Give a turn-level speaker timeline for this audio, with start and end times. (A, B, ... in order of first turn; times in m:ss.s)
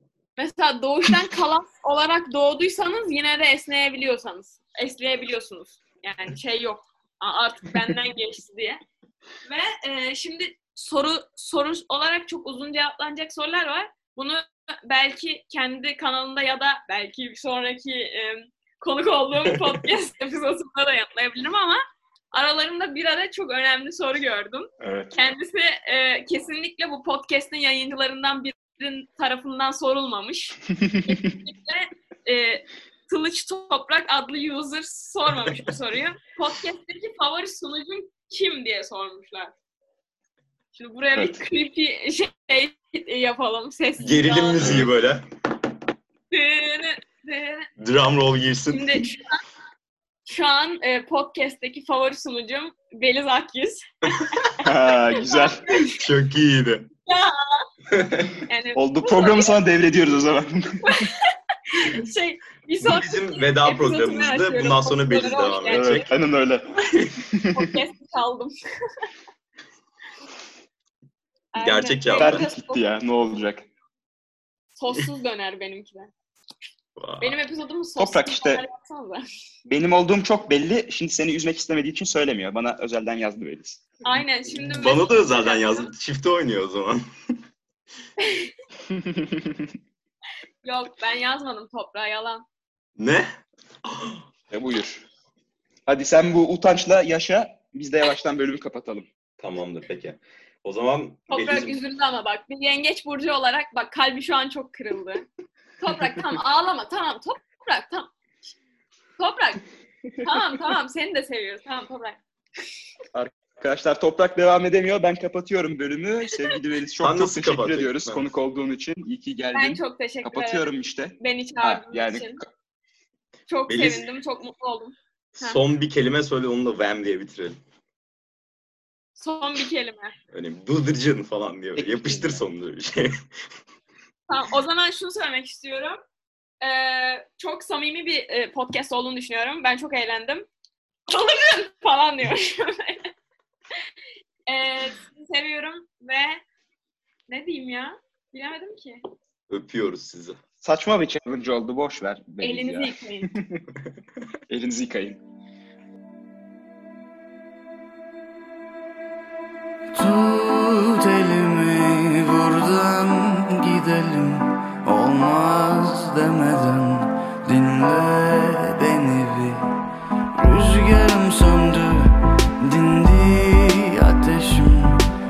0:00.4-0:08.8 A
0:09.5-0:39.5 A
0:24.8-0:25.1 B
0:30.8-0:31.2 B
0:40.8-0:44.9 A
0:41.1-0:41.4 B
0:44.0-0:45.3 C
0:44.6-0:44.9 B
0:46.3-0:47.7 A
0:47.8-0:49.0 C
0:48.7-0:49.4 A
0:50.3-0:56.0 A
0:54.6-0:55.7 B
0:55.9-0:56.9 C
0:57.1-0:57.7 A
0:58.0-0:58.3 C
0:58.5-0:59.6 A
0:58.8-1:01.1 B
1:00.8-1:06.1 A
1:02.8-1:06.1 C
1:05.7-1:07.8 B
1:07.5-1:09.0 A
1:11.5-1:12.8 A
1:11.6-1:12.4 C
1:12.2-1:13.7 B
1:14.8-1:16.1 A
1:17.0-1:17.4 C
1:17.2-1:19.2 A
1:18.0-1:18.7 B
1:19.6-1:23.8 B
1:24.0-1:25.9 A
1:24.7-1:27.0 C
1:28.2-1:28.5 A
1:28.9-1:29.6 B
1:30.6-1:32.4 A
1:33.0-1:33.3 C
1:33.8-1:34.2 C
1:34.5-1:35.0 B
1:35.9-1:39.1 B
1:39.4-1:41.8 C
1:41.3-1:45.3 A
1:45.8-1:48.1 A
1:49.2-1:49.6 A
1:50.2-1:52.2 A
1:53.1-2:02.5 B
1:57.0-1:58.2 C
1:59.5-2:00.6 A
2:01.2-2:02.4 A
2:03.5-2:05.6 A
2:03.7-2:04.0 C
2:05.4-2:07.6 C
2:09.2-2:10.1 A
2:10.3-2:13.2 C
2:11.8-2:12.4 B
2:14.3-2:16.0 A
2:16.6-2:20.5 A
2:21.1-2:23.1 A
2:24.5-2:26.4 A
2:27.3-2:29.0 A
2:29.5-2:30.4 C
2:30.6-2:33.6 B
2:32.4-2:33.3 A
2:34.5-2:35.2 B
2:39.9-2:49.7 D
2:50.3-2:55.0 D